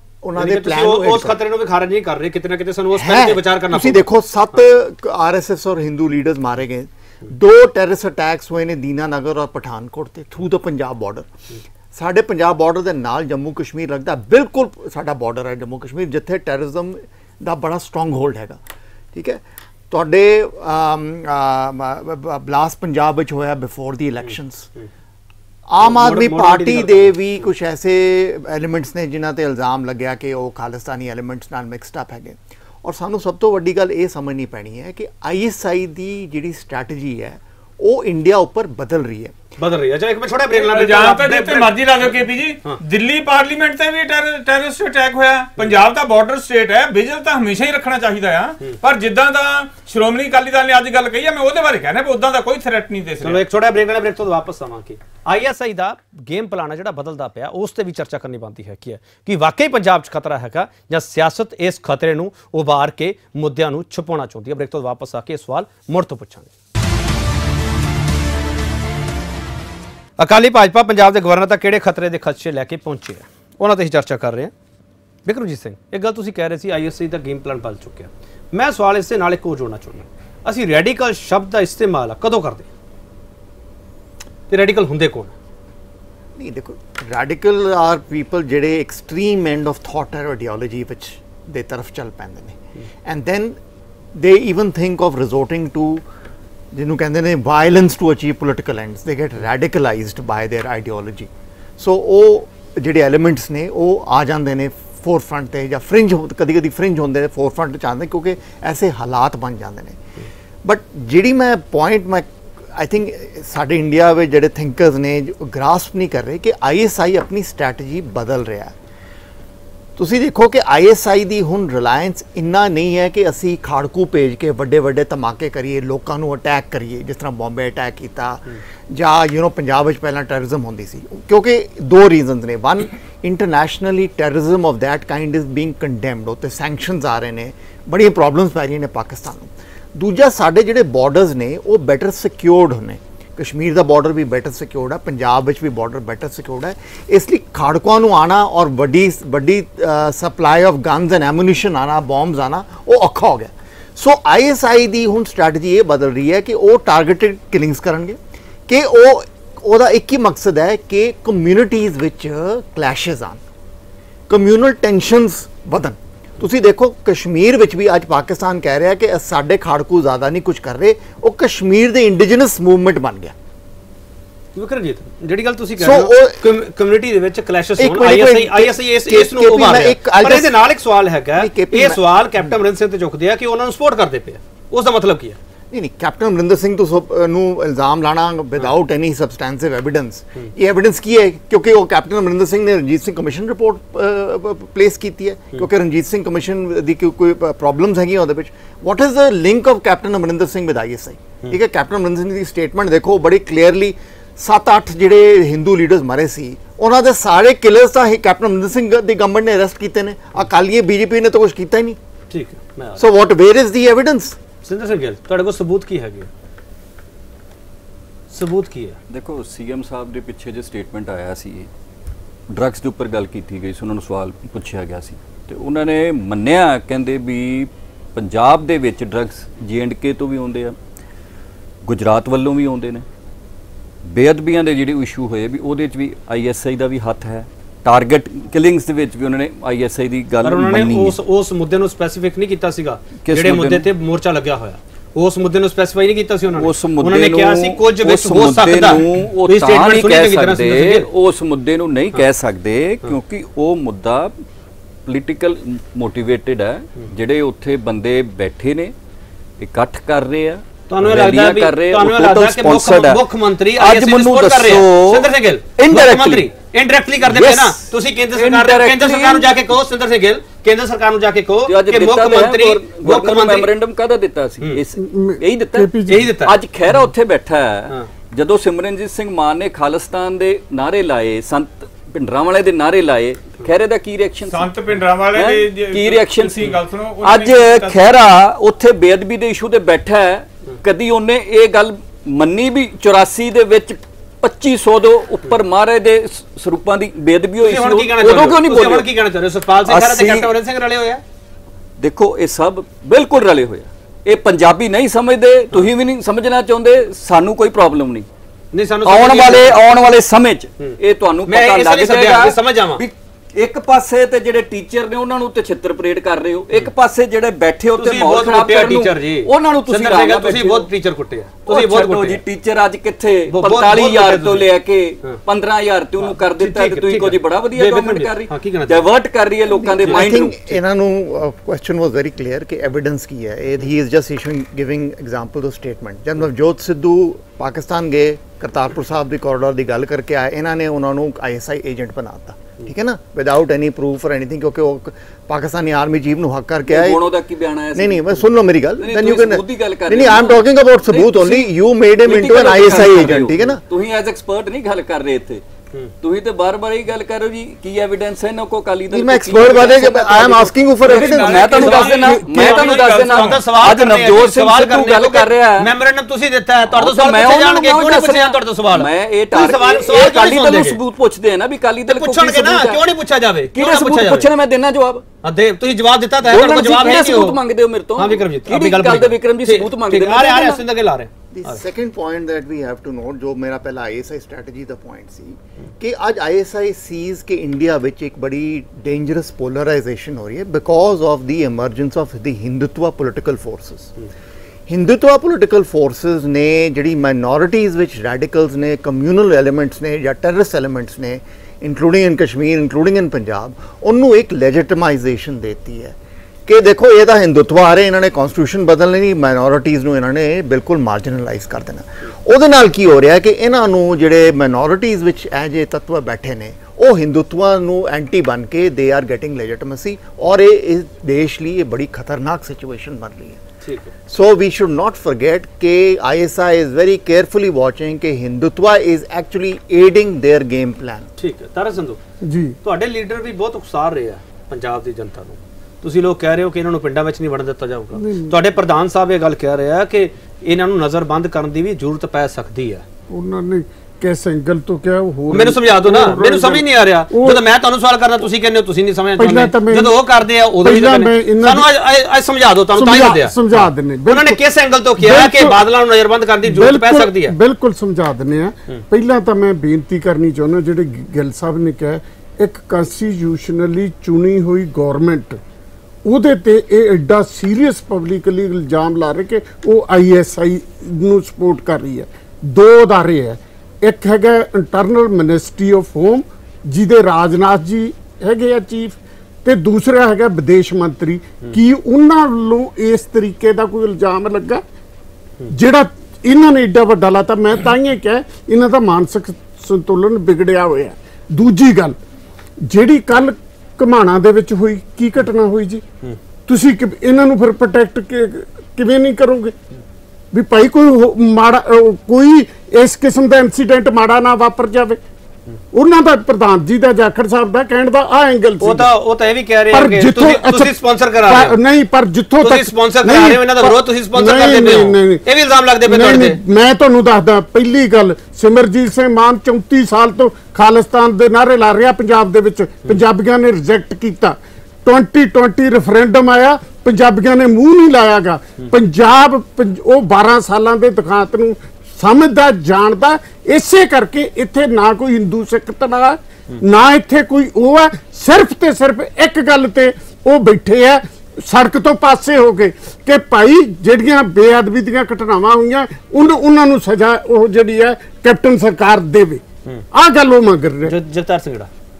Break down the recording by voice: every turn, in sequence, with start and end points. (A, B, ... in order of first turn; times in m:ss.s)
0:00.2-0:01.4 A
0:00.4-0:04.1 B
0:02.9-0:11.3 A
0:11.9-0:18.6 A
0:19.1-0:24.7 A
0:25.7-0:39.4 A
0:25.8-0:27.1 B
0:39.6-0:42.1 B
0:40.5-0:53.4 C
0:53.2-1:06.5 B
1:10.2-1:14.5 B
1:15.2-1:22.7 B
1:24.5-1:25.3 B
1:26.4-1:33.6 A
1:34.1-1:36.0 A
1:36.7-1:50.0 A
1:50.6-1:58.7 A
2:00.0-2:43.4 A
2:44.3-2:53.3 A
2:54.5-3:05.4 B
2:55.8-2:56.4 A
2:57.8-3:00.6 A
3:01.4-3:02.0 A
3:05.7-3:32.0 A
3:32.3-3:33.0 B
3:33.0-3:34.4 A
3:34.6-3:36.3 B
3:38.3-3:39.0 B
3:39.1-3:41.7 D
3:42.5-3:50.7 D
3:51.8-3:53.0 D
3:54.0-4:01.2 D
4:00.4-4:11.0 B
4:03.2-4:03.9 D
4:06.6-4:14.3 D
4:15.0-4:18.9 D
4:19.6-4:23.2 D
4:20.9-4:33.7 B
4:23.8-4:26.5 D
4:27.2-4:29.6 D
4:31.7-4:44.7 D
4:35.0-4:36.3 E
4:36.1-4:36.5 B
4:44.5-4:48.1 C
4:45.3-4:59.1 D
4:57.6-5:01.2 B
4:59.8-5:00.5 D
5:02.0-5:08.2 D
5:08.7-5:09.7 B
5:09.0-5:20.9 D
5:10.8-5:13.0 B
5:18.0-5:22.4 B
5:21.6-5:30.8 D
5:23.5-5:24.7 B
5:26.2-5:29.0 B
5:29.7-5:47.3 A
5:46.9-5:51.7 D
5:47.9-5:53.8 A
5:52.2-5:55.6 D
5:56.2-6:05.9 D
5:59.1-6:02.5 A
6:01.6-6:11.0 B
6:06.9-6:13.1 D
6:12.1-6:14.5 B
6:13.7-6:15.2 D
6:15.4-6:17.6 B
6:16.4-6:20.8 D
6:18.2-6:21.8 B
6:21.5-6:34.1 A
6:34.9-6:46.2 A
6:46.7-7:03.6 A
7:03.8-7:04.1 B
7:04.3-7:11.3 A
7:11.4-7:12.2 B
7:12.4-7:12.8 E
7:12.8-7:23.0 B
7:18.2-7:18.6 E
7:23.3-7:27.6 E
7:25.5-7:37.5 B
7:29.4-7:30.2 E
7:30.8-7:31.9 E
7:32.9-7:34.6 E
7:35.2-7:35.8 E
7:36.6-7:45.6 E
7:46.2-8:04.8 E
8:05.7-8:12.2 E
8:12.8-8:16.0 E
8:16.6-8:19.7 E
8:20.5-8:25.2 E
8:25.9-8:29.1 E
8:28.8-8:31.8 B
8:29.9-8:35.4 E
8:32.6-8:36.6 B
8:36.0-9:09.6 E
9:10.1-9:11.2 E
9:11.0-9:11.9 B